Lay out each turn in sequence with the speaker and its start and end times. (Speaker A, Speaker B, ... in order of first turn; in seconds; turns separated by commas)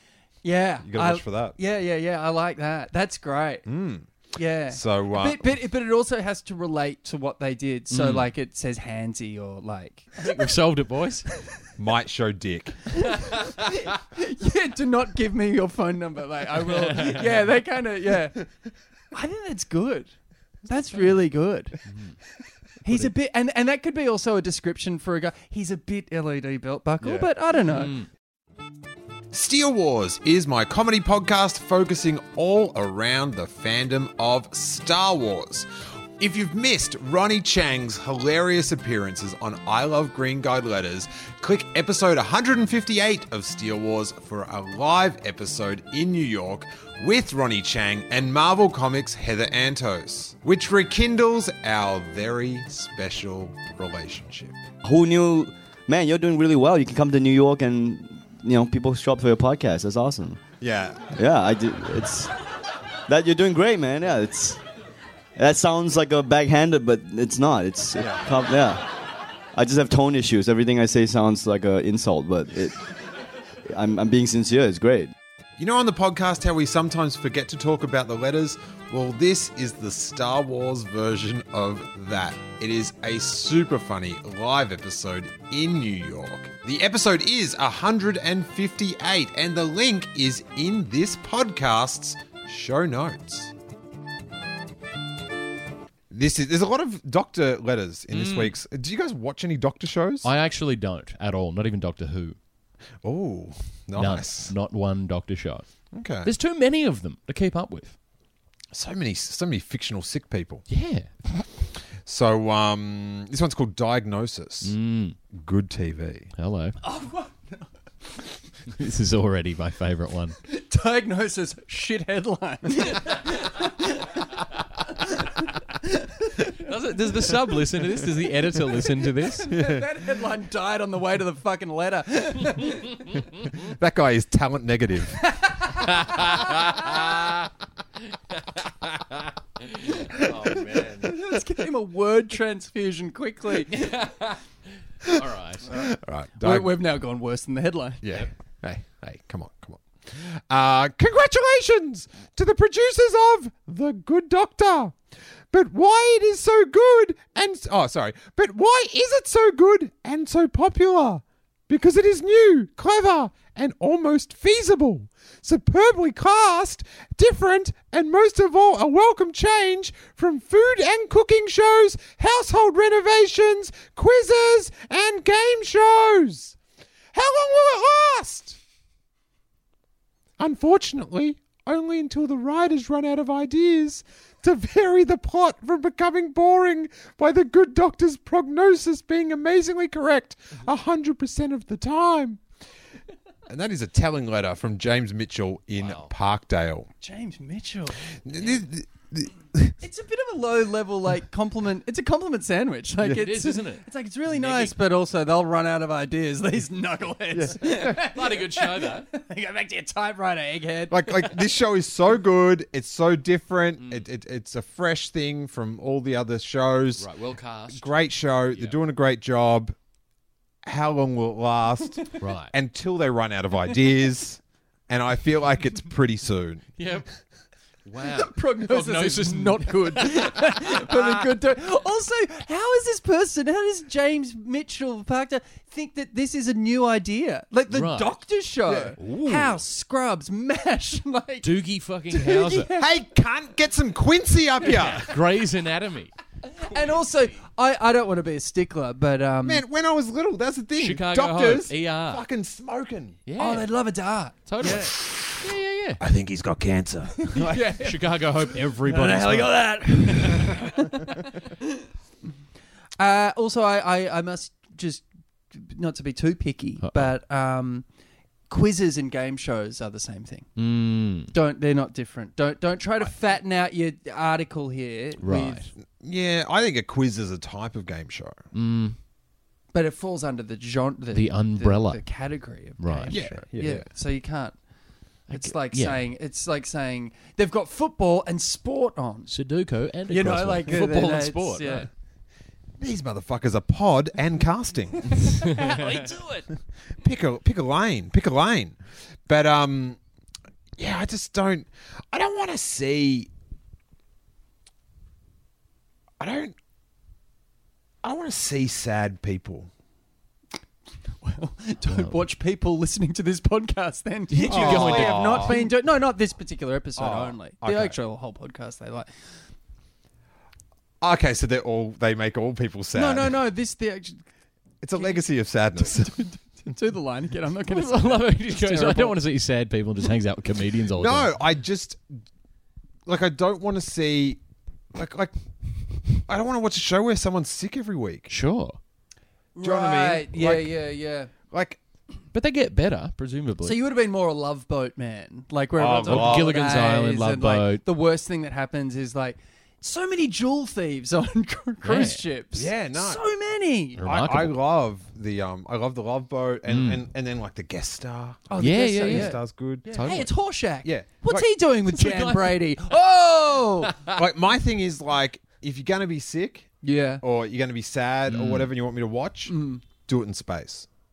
Speaker A: 0.4-3.7, Speaker B: 0.8-1.6, Speaker B: 3.7-4.1, Speaker A: 4.3-10.5, Speaker B: 4.7-5.5, Speaker C: 7.9-8.3, Speaker C: 10.2-11.2, Speaker B: 11.8-12.8, Speaker A: 12.9-18.5, Speaker C: 16.6-17.5, Speaker A: 19.1-20.1, Speaker A: 20.6-21.8, Speaker C: 21.9-22.2, Speaker A: 22.8-27.9, Speaker C: 27.2-28.1, Speaker B: 29.3-35.7, Speaker B: 36.2-54.6, Speaker D: 54.8-60.4, Speaker B: 60.6-61.2, Speaker D: 61.1-62.3, Speaker D: 63.1-64.6, Speaker D: 65.4-68.9, Speaker D: 69.5-72.9, Speaker D: 73.7-75.1, Speaker B: 75.6-93.5, Speaker B: 96.1-100.3, Speaker C: 98.1-98.5, Speaker C: 100.2-102.4, Speaker B: 103.0-104.5, Speaker C: 104.0-105.7, Speaker B: 105.9-106.3, Speaker C: 106.2-108.0, Speaker B: 108.7-110.7, Speaker C: 110.7-111.1, Speaker B: 112.0-114.8, Speaker C: 114.6-115.2, Speaker B: 115.3-116.3, Speaker C: 116.3-116.8, Speaker A: 116.8-117.7, Speaker C: 118.7-120.4, Speaker A: 120.5-124.3, Speaker A: 125.8-126.5, Speaker C: 126.5-129.5, Speaker A: 127.2-133.2, Speaker B: 129.5-129.8, Speaker B: 133.4-135.2, Speaker A: 135.2-136.6, Speaker C: 135.8-137.5, Speaker C: 138.1-141.2, Speaker A: 140.2-144.1, Speaker C: 143.7-144.4, Speaker B: 145.0-146.7, Speaker C: 145.1-145.8, Speaker A: 146.4-148.0, Speaker B: 148.0-155.0, Speaker B: 155.5-176.6, Speaker B: 177.1-178.6, Speaker B: 180.4-192.4, Speaker B: 193.5-196.9, Speaker C: 195.8-196.1, Speaker A: 197.0-198.0, Speaker B: 198.2-199.8, Speaker A: 199.8-211.4, Speaker C: 203.0-204.8, Speaker B: 207.3-208.0, Speaker C: 207.6-209.1, Speaker B: 210.9-217.1, Speaker C: 217.0-217.9, Speaker B: 217.7-219.8, Speaker C: 218.5-218.8, Speaker B: 220.7-226.7, Speaker C: 222.2-222.5, Speaker C: 226.8-227.1, Speaker C: 227.8-231.3, Speaker A: 228.0-241.5, Speaker C: 237.7-238.2, Speaker B: 238.7-239.4, Speaker C: 239.0-239.6, Speaker C: 241.4-242.7, Speaker A: 242.1-243.0, Speaker B: 242.7-245.2, Speaker C: 244.6-246.1, Speaker A: 246.4-249.6, Speaker B: 249.4-253.2, Speaker C: 250.8-252.2, Speaker C: 253.3-253.7, Speaker A: 253.4-254.9, Speaker C: 254.5-256.0, Speaker B: 254.7-255.3, Speaker B: 256.0-257.6, Speaker A: 257.2-261.7, Speaker C: 257.5-260.6, Speaker A: 263.0-267.9, Speaker C: 266.8-267.1, Speaker A: 268.5-270.5, Speaker C: 270.6-271.3, Speaker A: 271.3-275.7, Speaker C: 275.2-275.7, Speaker B: 275.8-278.4, Speaker C: 278.5-279.0, Speaker A: 279.7-284.6, Speaker C: 281.1-282.0, Speaker C: 282.8-283.2, Speaker B: 283.1-283.9, Speaker A: 285.3-289.3, Speaker C: 285.3-286.0, Speaker C: 289.3-291.9, Speaker A: 290.1-291.9, Speaker B: 292.8-295.4, Speaker A: 295.2-296.4, Speaker C: 295.4-296.4, Speaker B: 297.0-300.0, Speaker B: 300.8-303.3, Speaker B: 306.2-306.6, Speaker B: 308.0-309.7, Speaker A: 311.2-319.1, Speaker C: 311.9-312.2, Speaker C: 314.3-315.7, Speaker B: 314.5-315.6, Speaker B: 317.0-318.0, Speaker B: 321.0-323.4, Speaker A: 322.9-324.2, Speaker B: 324.8-326.2, Speaker A: 325.0-325.2, Speaker A: 325.8-329.2, Speaker C: 327.7-331.3, Speaker B: 331.0-332.2, Speaker B: 333.1-334.4, Speaker B: 334.9-335.3, Speaker B: 336.1-338.3, Speaker C: 338.3-338.8, Speaker A: 339.6-341.3, Speaker B: 339.6-340.7, Speaker B: 341.4-341.8, Speaker C: 342.3-343.8, Speaker A: 343.6-354.0, Speaker B: 345.8-346.6, Speaker C: 346.0-347.8, Speaker C: 351.8-352.2, Speaker B: 352.5-353.2, Speaker C: 354.0-354.6, Speaker B: 354.0-360.1, Speaker C: 356.7-357.0, Speaker A: 358.5-363.9, Speaker C: 358.6-359.4, Speaker C: 359.9-360.3, Speaker B: 360.8-361.5, Speaker C: 361.9-362.6, Speaker C: 363.8-364.2, Speaker B: 364.1-370.9, Speaker A: 366.8-367.2, Speaker C: 368.3-368.7, Speaker A: 369.5-369.8